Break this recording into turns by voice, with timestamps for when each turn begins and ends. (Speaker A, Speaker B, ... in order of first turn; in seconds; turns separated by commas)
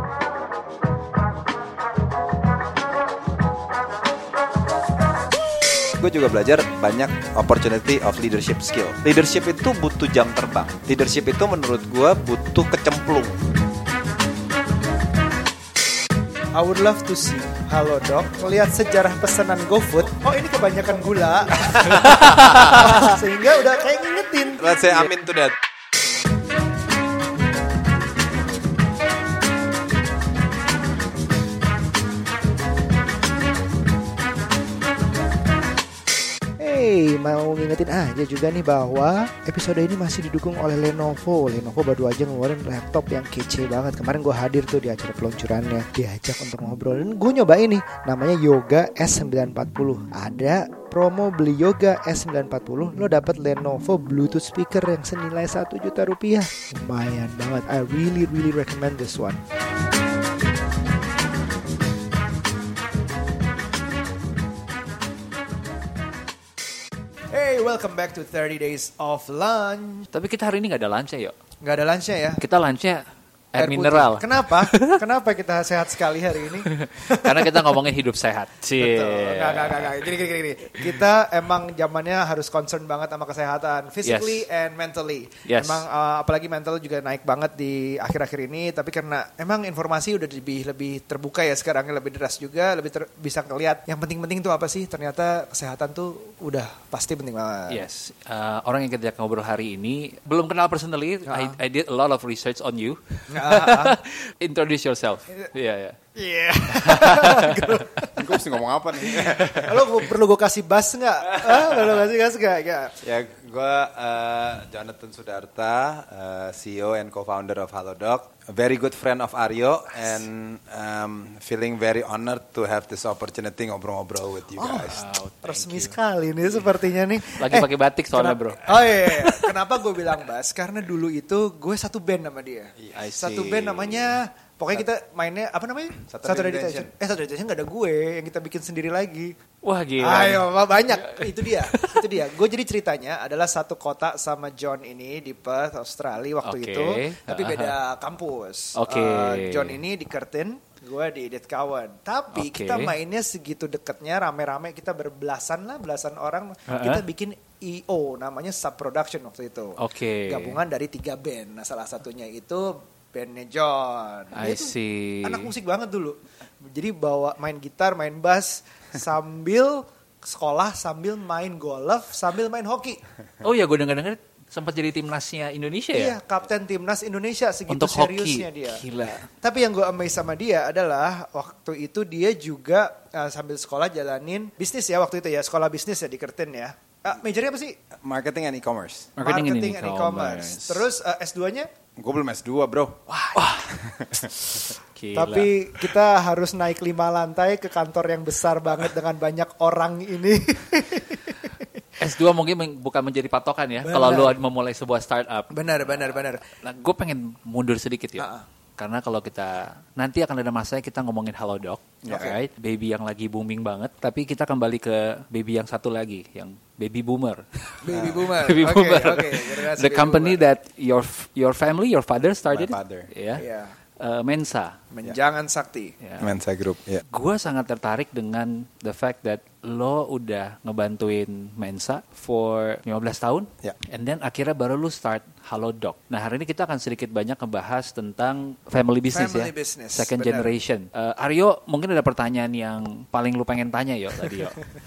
Speaker A: 5.9-13.4, Speaker B: 16.5-25.1, Speaker A: 21.6-23.0, Speaker C: 22.1-22.7, Speaker A: 24.6-25.6, Speaker B: 36.6-59.4, Speaker B: 67.3-70.1, Speaker C: 70.1-71.3, Speaker B: 71.6-72.4, Speaker C: 72.4-75.0, Speaker B: 73.6-77.7, Speaker C: 76.7-80.0, Speaker B: 78.8-97.8, Speaker C: 84.0-84.5, Speaker C: 85.5-85.8, Speaker C: 97.7-106.0, Speaker B: 101.3-101.6, Speaker B: 103.3-104.0, Speaker B: 106.2-108.2, Speaker C: 106.7-107.8, Speaker A: 108.2-109.8, Speaker C: 109.2-109.7, Speaker B: 109.6-112.9, Speaker A: 113.0-125.0, Speaker B: 124.6-139.3, Speaker C: 124.9-126.0, Speaker C: 127.4-129.5, Speaker A: 132.8-134.2, Speaker A: 136.1-136.9, Speaker C: 139.6-142.1, Speaker B: 140.0-164.7, Speaker C: 146.4-147.7, Speaker C: 148.8-149.8, Speaker C: 152.3-152.9, Speaker C: 156.7-157.0, Speaker C: 159.8-160.6, Speaker C: 164.3-165.5, Speaker B: 165.2-173.0, Speaker C: 173.4-176.2, Speaker B: 175.9-178.8, Speaker C: 177.7-179.3, Speaker B: 179.4-187.7, Speaker A: 188.0-189.2, Speaker C: 189.2-190.8, Speaker B: 189.2-191.7, Speaker A: 192.0-193.0, Speaker B: 193.1-193.4, Speaker C: 193.4-193.7, Speaker A: 193.7-194.3, Speaker C: 194.9-195.5, Speaker B: 195.1-201.7, Speaker C: 202.0-206.0, Speaker B: 203.8-204.3, Speaker B: 205.5-206.4, Speaker C: 206.6-223.4, Speaker B: 208.2-208.4, Speaker A: 212.0-212.4, Speaker B: 212.1-212.3, Speaker B: 217.8-220.4, Speaker A: 217.9-218.3, Speaker A: 222.5-223.1, Speaker B: 223.4-223.8, Speaker C: 224.0-224.8, Speaker B: 224.9-225.9, Speaker C: 226.0-226.3, Speaker A: 226.2-227.0, Speaker C: 227.1-244.6, Speaker B: 239.1-240.5